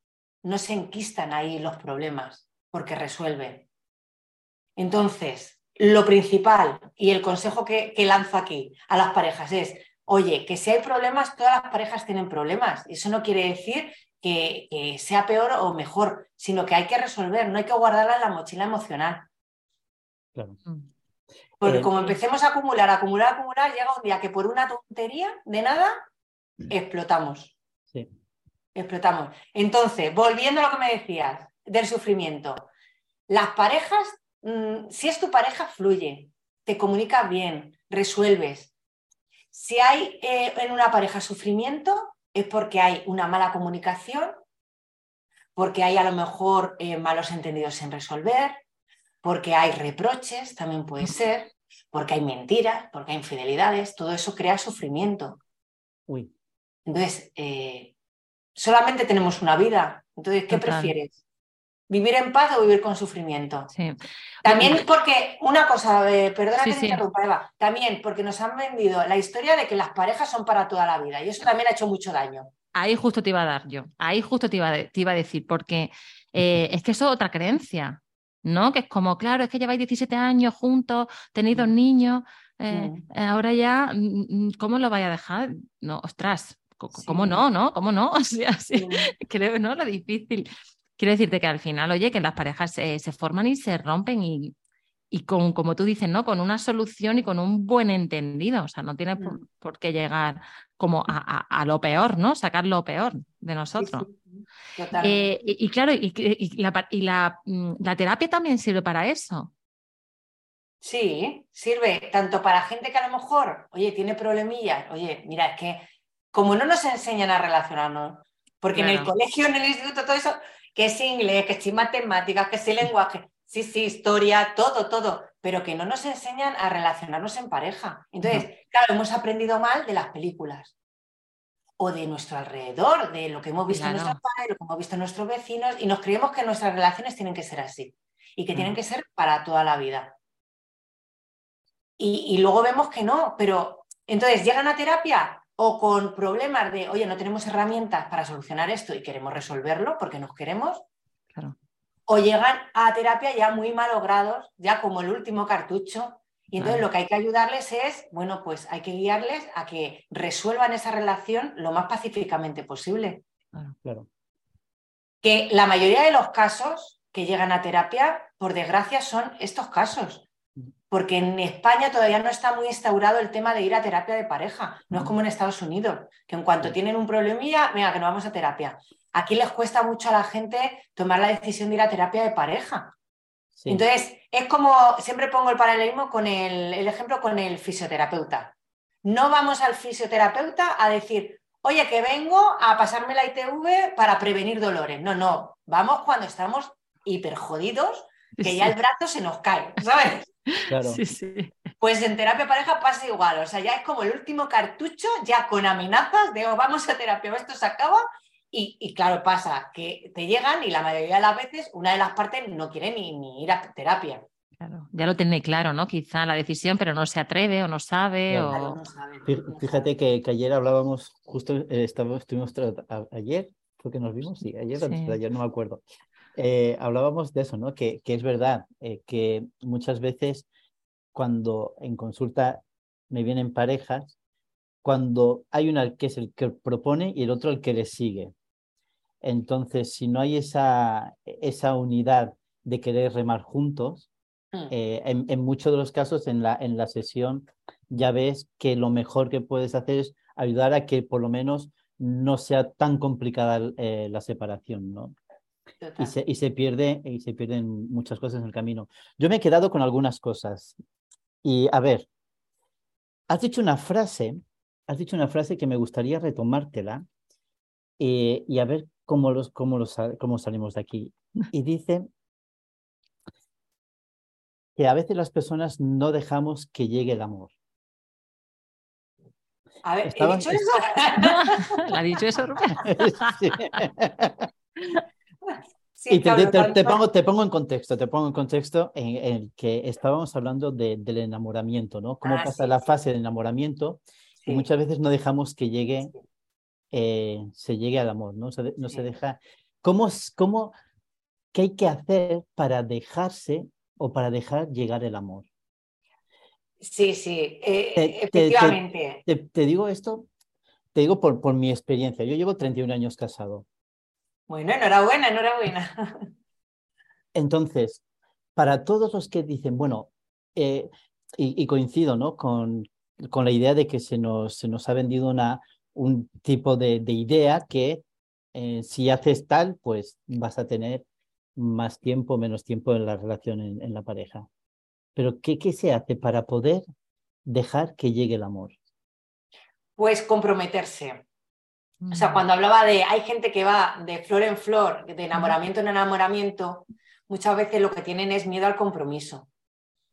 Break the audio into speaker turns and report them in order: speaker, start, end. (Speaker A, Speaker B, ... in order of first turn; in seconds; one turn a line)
Speaker A: 0.4-3.6
Speaker A: 4.8-19.3
Speaker A: 21.6-26.0
Speaker B: 21.6-21.9
Speaker A: 26.7-27.5
Speaker A: 28.7-32.7
Speaker A: 33.3-38.7
Speaker A: 39.5-44.4
Speaker A: 45.5-48.6
Speaker A: 49.2-55.4
Speaker A: 56.9-57.9
Speaker A: 58.5-61.1
Speaker C: 60.5-60.9
Speaker A: 61.9-63.7
Speaker C: 63.7-64.8
Speaker A: 64.4-72.5
Speaker C: 66.6-67.0
Speaker C: 72.7-94.5
Speaker A: 82.7-83.0
Speaker A: 86.9-87.4
Speaker A: 88.7-89.1
Speaker C: 95.1-104.1
Speaker A: 103.8-105.3
Speaker C: 105.0-109.5
Speaker A: 110.8-130.7
Speaker C: 118.7-119.1
Speaker A: 131.8-140.1
Speaker C: 133.7-134.2
Speaker A: 142.0-150.8
Speaker A: 152.1-163.2
Speaker C: 156.6-156.8
Speaker A: 165.2-170.3
Speaker A: 170.9-182.9
Speaker B: 183.6-183.8
Speaker A: 183.7-188.5
Speaker A: 189.0-200.3
Speaker C: 198.4-198.7
Speaker C: 200.5-201.5
Speaker B: 200.7-201.0
Speaker A: 201.8-214.2
Speaker C: 214.6-218.8
Speaker B: 218.3-218.6
Speaker A: 218.5-219.9
Speaker B: 219.3-225.8
Speaker C: 224.8-225.2
Speaker B: 226.3-230.5
Speaker B: 231.1-234.2
Speaker B: 234.8-238.3
Speaker B: 239.2-244.1
Speaker B: 244.7-255.1
Speaker A: 255.8-256.1
Speaker B: 256.0-260.8
Speaker B: 261.4-262.1
Speaker B: 263.3-267.0
Speaker B: 268.0-272.1
Speaker B: 274.8-277.5
Speaker A: 279.8-281.9
Speaker B: 280.0-280.8
Speaker C: 281.2-283.8
Speaker B: 282.8-284.5
Speaker C: 284.8-285.0
Speaker A: 285.9-287.0
Speaker B: 286.1-296.1
Speaker A: 292.2-293.0
Speaker A: 294.4-294.7
Speaker B: 296.9-300.7
Speaker B: 301.5-305.5
Speaker A: 306.8-309.2
Speaker B: 307.9-310.3
Speaker B: 310.9-313.6
Speaker A: 314.5-316.3
Speaker B: 317.3-318.0
Speaker B: 318.6-331.0
Speaker B: 331.6-334.5
Speaker B: 335.1-336.8
Speaker B: 337.4-338.7
Speaker A: 340.0-341.2
Speaker C: 342.0-342.4
Speaker A: 342.1-349.5